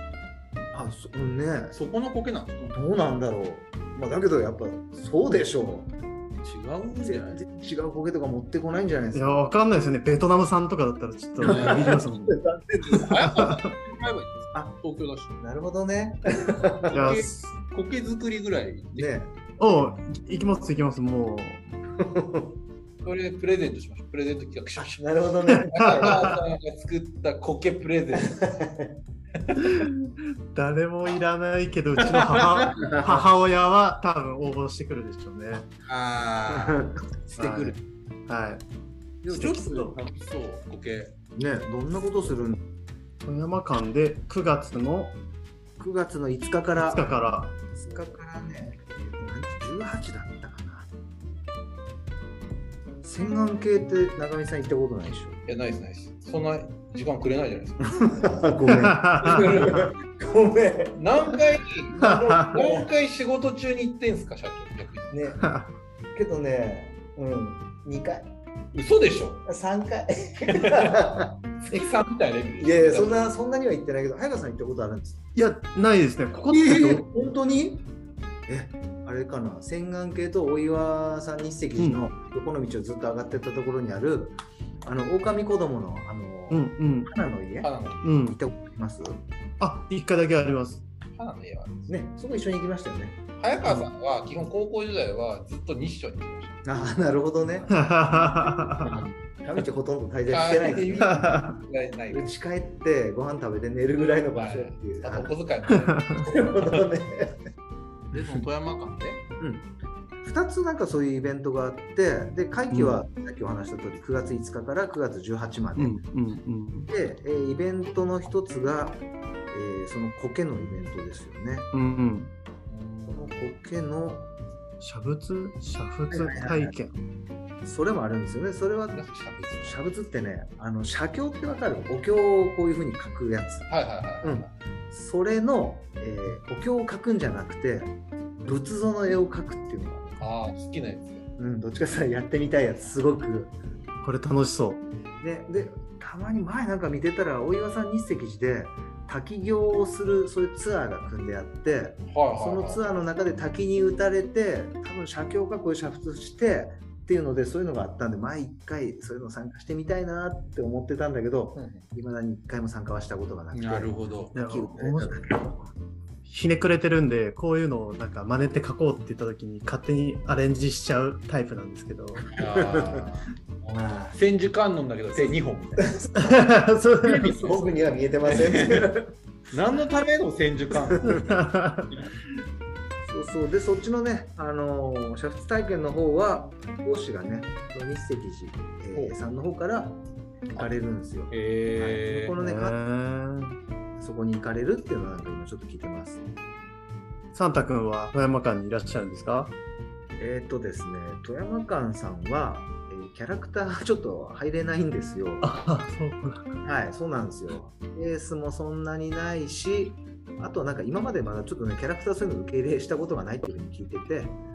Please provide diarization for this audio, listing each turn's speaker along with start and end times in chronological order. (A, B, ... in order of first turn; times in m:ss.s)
0:00.7-0:01.8 A
0:01.7-0:02.7 B
0:02.7-0:05.9 A
0:06.4-0:07.4 B
0:07.0-0:09.5 A
0:09.1-0:12.4 C
0:11.4-0:12.0 B
0:11.4-0:13.1 A
0:12.8-0:15.4 B
0:13.4-0:13.7 C
0:15.4-0:17.0 A
0:16.8-0:19.1 B
0:16.9-0:17.5 C
0:18.9-0:19.3 A
0:19.6-0:21.7 C
0:22.0-0:22.6 A
0:23.0-0:25.0 B
0:24.8-0:26.3 A
0:25.6-0:28.4 B
0:25.8-0:26.4 C
0:28.2-0:28.9 A
0:29.5-0:35.7 C
0:32.1-0:32.9 B
0:32.8-0:33.2 A
0:35.8-0:37.8 B
0:36.5-0:37.0 A
0:37.4-0:37.8 C
0:38.3-0:38.6 C
0:39.2-0:41.1 B
0:39.3-0:39.8 C
0:39.4-0:39.8 A
0:41.3-0:42.6 A
0:43.2-0:45.2 C
0:45.8-0:50.9 A
0:46.8-0:47.5 C
0:53.0-0:55.4 A
0:55.4-0:58.3 B
0:57.8-1:01.4 A
0:58.7-0:59.5 C
0:59.2-0:59.9 B
1:00.9-1:05.1 B
1:02.0-1:02.8 A
1:02.0-1:02.6 C
1:05.1-1:05.4 A
1:05.4-1:05.7 C
1:06.1-1:08.3 A
1:08.7-1:09.4 B
1:09.4-1:11.3 A
1:10.5-1:11.0 B
1:11.7-1:13.3 B
1:12.6-1:15.2 A
1:15.3-1:17.1 C
1:16.5-1:17.8 A
1:18.5-1:29.2 A
1:26.5-1:27.1 C
1:27.6-1:28.2 B
1:28.0-1:28.4 C
1:29.6-1:30.8 C
1:31.1-1:31.9 B
1:31.9-1:33.2 A
1:33.4-1:36.6 B
1:36.6-1:37.8 A
1:37.7-1:39.0 C
1:38.4-1:41.5 A
1:40.3-1:42.3 B
1:41.1-1:41.5 C
1:42.1-1:45.3 A
1:44.3-1:46.8 B
1:45.7-1:46.2 C
1:46.2-1:47.4 A
1:48.1-1:49.2 B
1:49.4-1:49.7 A
1:50.2-1:56.0 A
1:52.7-1:53.0 C
1:55.8-1:56.9 C
1:56.9-2:01.7 A
2:01.7-2:02.3 C
2:02.7-2:03.5 B
2:03.1-2:04.3 A
2:04.8-2:06.9 C
2:06.1-2:06.7 A
2:07.6-2:09.0 A
2:08.9-2:09.8 B
2:09.6-2:13.7 A
2:13.7-2:14.5 B
2:14.2-2:20.2 A
2:20.2-2:21.2 B
2:21.4-2:23.5 A
2:24.0-2:24.8 C
2:25.2-2:45.4 A
2:32.1-2:32.8 B
2:41.5-2:41.9 B
2:43.5-2:44.3 B
2:44.3-2:45.6 C
2:46.2-2:52.2 C
2:52.3-2:53.3 B
2:52.4-2:53.0 A
2:53.6-2:54.2 A
2:54.1-2:55.9 B
2:55.2-2:56.3 A
2:56.1-2:57.4 C
2:57.0-2:58.9 B
2:57.2-2:59.1 A
2:59.5-3:02.0 B
3:01.0-3:01.9 C
3:03.0-3:10.0 A
3:10.5-3:12.7 A
3:11.3-3:12.4 B
3:12.4-3:13.6 C
3:14.0-3:16.2 A
3:17.3-3:19.5 C
3:20.2-3:25.5 A
3:25.4-3:26.5 C
3:26.6-3:34.4 A